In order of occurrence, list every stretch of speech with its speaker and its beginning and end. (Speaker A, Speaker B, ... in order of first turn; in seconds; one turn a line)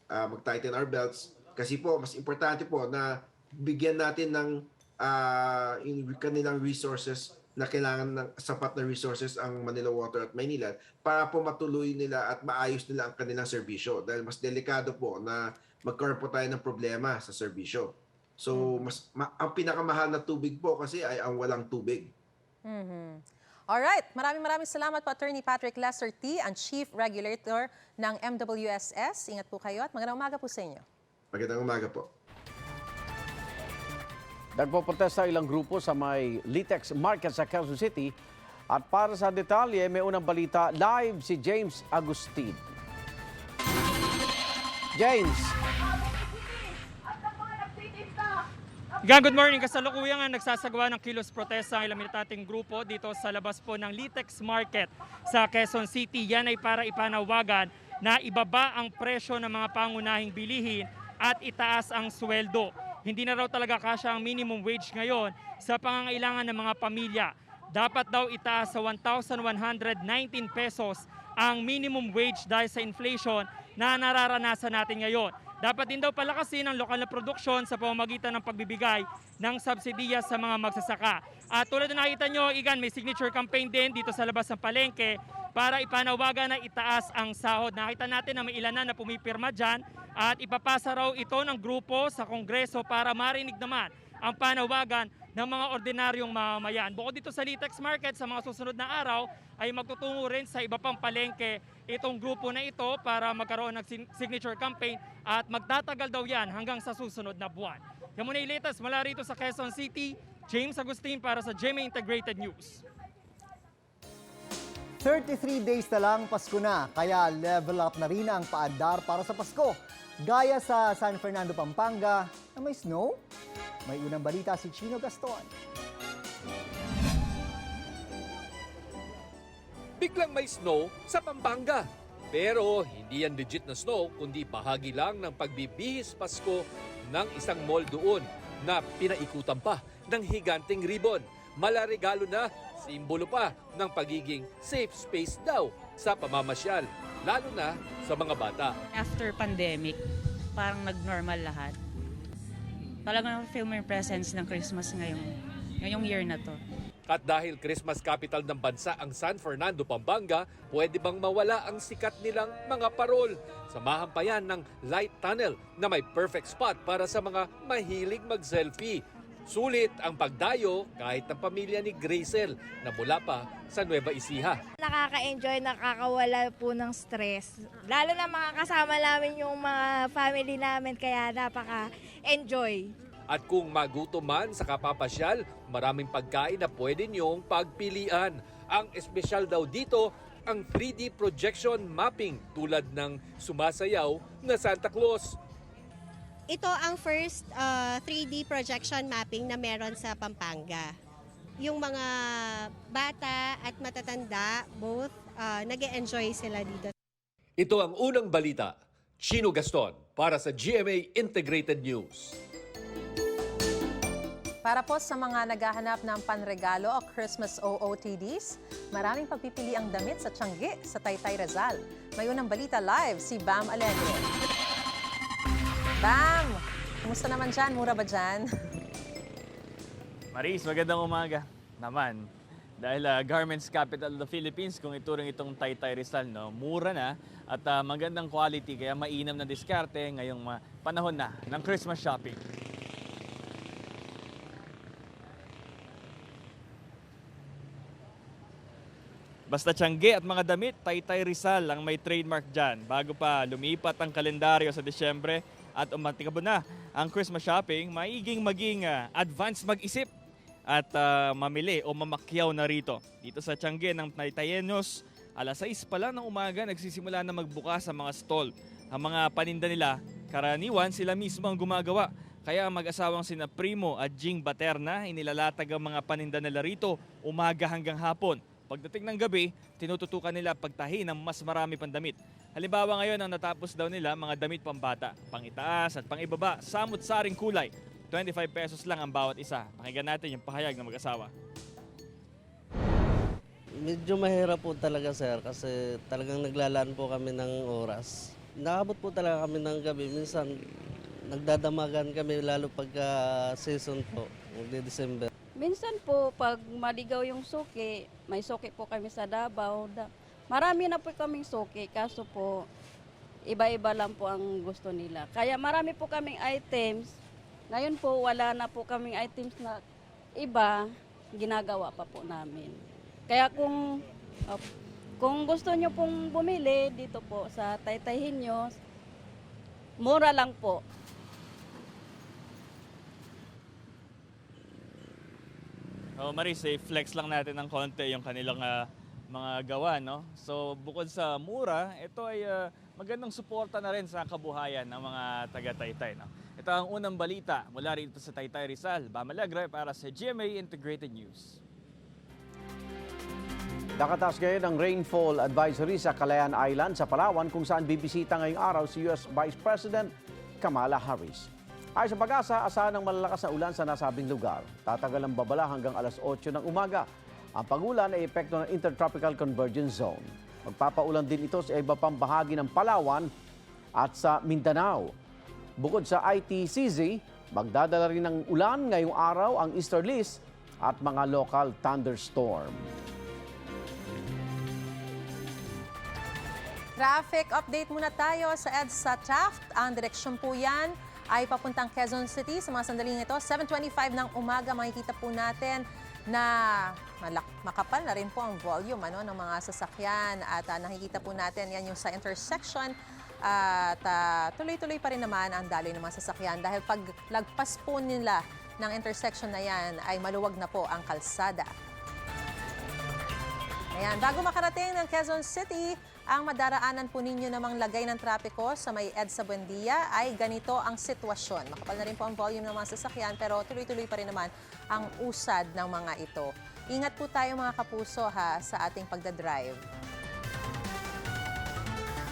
Speaker A: 0.1-22.1
Speaker B: 18.5-18.9
Speaker B: 22.7-30.8
Speaker A: 31.3-32.1
Speaker C: 34.5-38.1
Speaker C: 38.7-42.6
Speaker C: 44.9-45.5
Speaker D: 49.0-112.8
Speaker E: 115.0-123.2
Speaker E: 123.8-125.5
Speaker F: 130.0-148.8
Speaker G: 149.0-149.9
Speaker G: 150.6-151.7
Speaker G: 153.1-155.3
Speaker G: 155.8-156.5
Speaker F: 157.1-174.6
Speaker H: 174.8-182.9
Speaker F: 183.3-195.3
Speaker I: 196.5-200.9
Speaker I: 201.6-206.9
Speaker F: 207.6-212.4
Speaker B: 214.6-224.3
Speaker B: 226.0-228.5
Speaker J: 230.3-232.3
Speaker J: 232.8-242.4
Speaker J: 249.5-260.1
Speaker J: 260.7-291.3
Speaker K: 293.8-300.6
Speaker K: 301.3-305.3
Speaker L: 305.6-312.6
Speaker L: 313.5-317.1
Speaker L: 317.7-319.8
Speaker L: 320.4-323.8
Speaker L: 325.2-328.8
Speaker L: 330.0-330.8
Speaker J: 336.2-351.6
Speaker C: 354.0-367.1
Speaker C: 367.6-373.3
Speaker C: 374.0-375.1
Speaker C: 375.8-382.9
Speaker B: 387.0-411.7
Speaker B: 413.9-429.8